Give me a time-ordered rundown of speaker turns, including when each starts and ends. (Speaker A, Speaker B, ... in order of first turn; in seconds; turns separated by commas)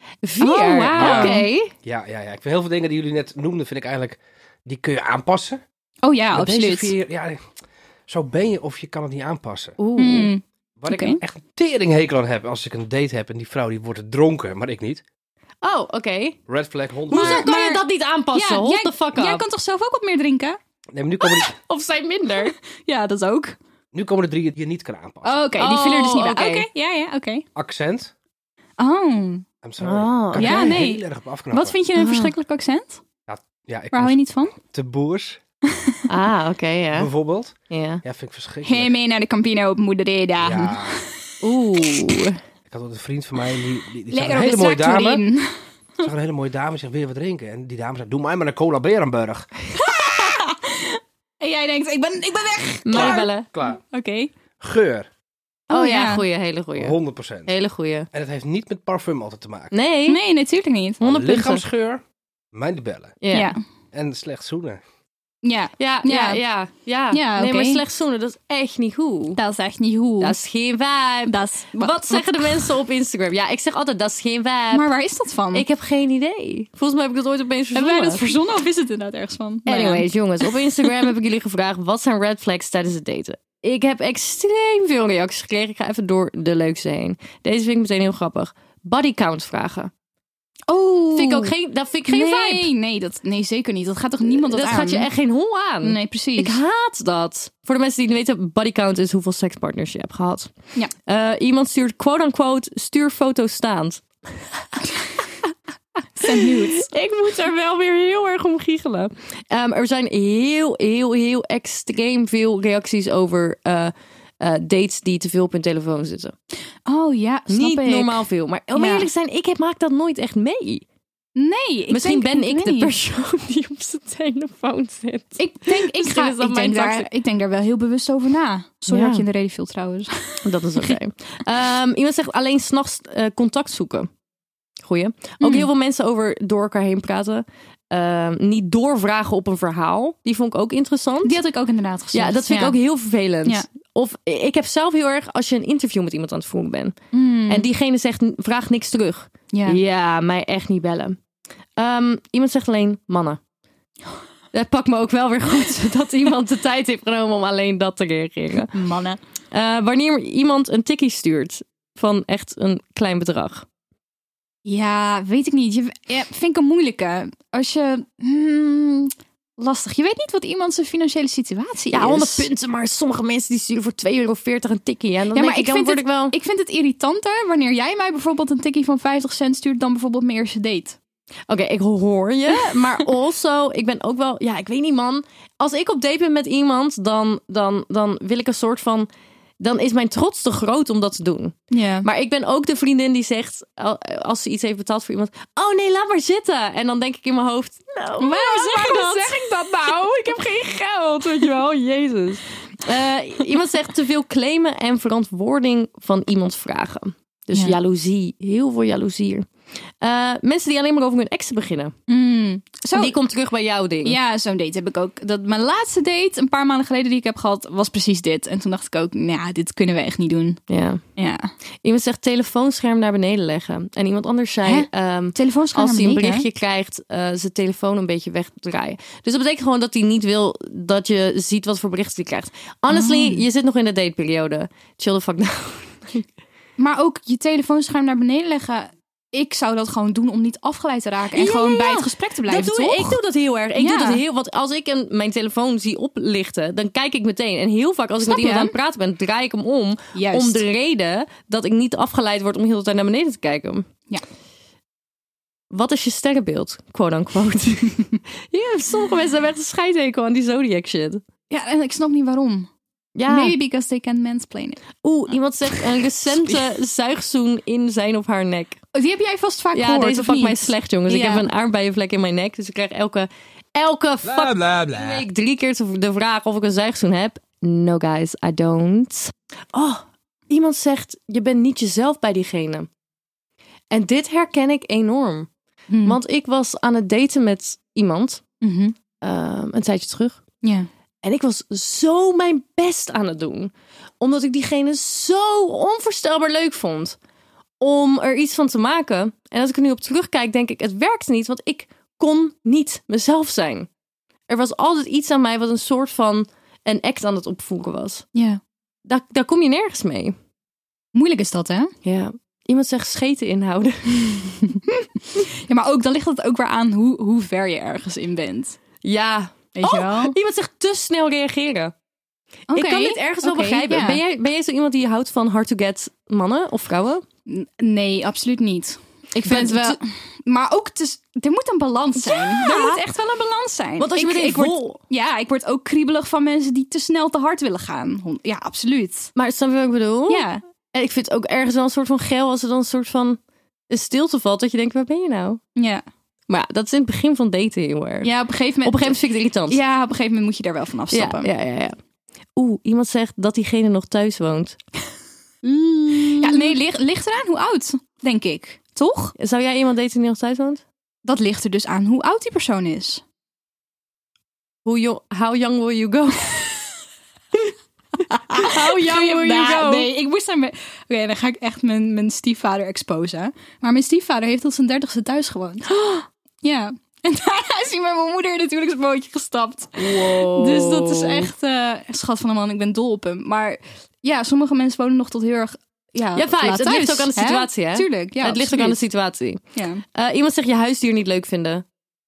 Speaker A: 0.2-1.7, Speaker B: 0.4-1.5, Speaker C: 1.0-5.6, Speaker B: 6.0-6.9, Speaker C: 6.3-7.4, Speaker C: 8.1-9.8, Speaker A: 9.8-10.3, Speaker B: 10.0-11.2, Speaker C: 10.8-15.0, Speaker A: 15.6-16.4, Speaker C: 16.5-17.5, Speaker B: 17.1-20.6, Speaker A: 17.1-19.4, Speaker C: 20.9-21.6, Speaker A: 21.4-22.6, Speaker B: 22.4-23.6, Speaker C: 23.9-25.4, Speaker B: 25.2-27.5, Speaker A: 25.6-26.7, Speaker C: 27.6-28.1, Speaker B: 28.8-29.5, Speaker C: 29.6-31.9, Speaker A: 29.8-30.8, Speaker B: 30.4-33.0, Speaker A: 32.0-32.3, Speaker C: 33.3-35.4, Speaker B: 33.9-34.6, Speaker A: 36.1-37.1, Speaker C: 36.9-38.9, Speaker A: 37.7-38.0, Speaker B: 38.6-41.0, Speaker C: 40.4-41.0, Speaker A: 41.4-42.4, Speaker C: 42.7-45.2, Speaker B: 44.1-45.6, Speaker C: 46.0-49.9, Speaker B: 49.8-54.3, Speaker A: 52.9-53.5, Speaker C: 52.9-53.8, Speaker C: 54.6-55.1, Speaker B: 55.7-56.3, Speaker A: 55.7-58.1, Speaker C: 56.8-57.5, Speaker C: 58.1-59.8, Speaker A: 59.7-60.2, Speaker B: 60.1-61.0, Speaker C: 61.0-62.0, Speaker A: 61.0-61.6, Speaker C: 62.5-63.2, Speaker A: 63.2-63.6, Speaker B: 63.3-63.6, Speaker C: 63.9-64.8, Speaker B: 65.4-66.4, Speaker A: 65.8-69.4, Speaker B: 67.1-67.8, Speaker B: 69.3-70.4, Speaker A: 70.2-74.9, Speaker B: 71.3-72.8, Speaker B: 74.7-75.7, Speaker A: 75.5-78.3, Speaker B: 77.7-81.0, Speaker A: 79.7-89.9, Speaker B: 90.7-91.5, Speaker A: 91.1-92.7, Speaker B: 92.1-95.1, Speaker A: 94.2-100.5, Speaker B: 95.8-96.6, Speaker A: 101.1-104.0, Speaker B: 106.2-106.9, Speaker A: 106.2-116.3, Speaker B: 116.9-119.1, Speaker A: 117.5-120.8, Speaker B: 121.4-123.0, Speaker A: 121.9-127.1, Speaker B: 125.4-130.9, Speaker A: 128.9-129.3, Speaker A: 130.4-134.1, Speaker A: 134.8-141.4, Speaker B: 135.4-135.7, Speaker B: 141.2-142.8, Speaker A: 142.1-151.2, Speaker B: 147.1-147.7, Speaker B: 149.5-149.8, Speaker A: 151.8-153.4, Speaker A: 154.5-158.7, Speaker B: 158.7-159.2, Speaker A: 159.5-163.7, Speaker B: 164.7-172.5, Speaker A: 171.9-176.4, Speaker B: 175.3-181.0, Speaker A: 181.5-189.1, Speaker A: 189.6-209.5, Speaker B: 191.7-192.1, Speaker B: 198.2-199.7, Speaker A: 210.0-211.9, Speaker B: 212.1-213.2, Speaker A: 212.9-214.2, Speaker B: 214.0-220.6, Speaker A: 220.7-221.0, Speaker B: 221.2-221.5, Speaker A: 221.8-236.2, Speaker B: 224.6-226.5, Speaker B: 232.9-233.4, Speaker B: 236.8-243.2, Speaker A: 241.3-253.9, Speaker B: 243.8-244.2, Speaker B: 248.2-248.8, Speaker B: 250.2-250.7, Speaker A: 255.7-261.2, Speaker B: 261.5-262.7, Speaker A: 263.1-263.6, Speaker B: 263.3-264.8, Speaker A: 265.0-268.8, Speaker B: 268.9-271.5, Speaker A: 269.7-282.9, Speaker C: 274.3-275.2, Speaker A: 283.9-285.5, Speaker B: 285.9-286.2, Speaker A: 286.0-288.4, Speaker B: 288.6-289.0, Speaker A: 289.2-290.4, Speaker B: 290.6-290.9, Speaker A: 291.2-297.2, Speaker A: 297.8-303.9, Speaker A: 304.5-308.3, Speaker B: 308.3-308.6, Speaker A: 309.1-310.4, Speaker B: 311.1-311.9, Speaker A: 312.0-314.8, Speaker B: 315.3-318.8, Speaker A: 319.0-321.9, Speaker B: 319.8-320.4, Speaker A: 322.7-327.2, Speaker B: 322.7-324.2, Speaker B: 327.5-339.3, Speaker A: 329.3-330.0, Speaker A: 332.2-333.1, Speaker A: 334.0-335.0, Speaker A: 339.4-343.4, Speaker B: 340.3-340.6, Speaker A: 343.9-345.6, Speaker B: 345.8-346.0, Speaker A: 346.5-349.8, Speaker B: 348.2-351.5, Speaker A: 351.1-352.0, Speaker A: 352.6-354.8, Speaker A: 355.7-356.8, Speaker B: 356.1-359.4, Speaker A: 359.4-360.8, Speaker B: 361.2-363.2, Speaker A: 364.9-366.8, Speaker B: 368.3-389.0, Speaker A: 368.5-370.1, Speaker A: 380.0-381.5, Speaker A: 386.3-389.6, Speaker B: 389.8-390.0, Speaker A: 390.1-391.9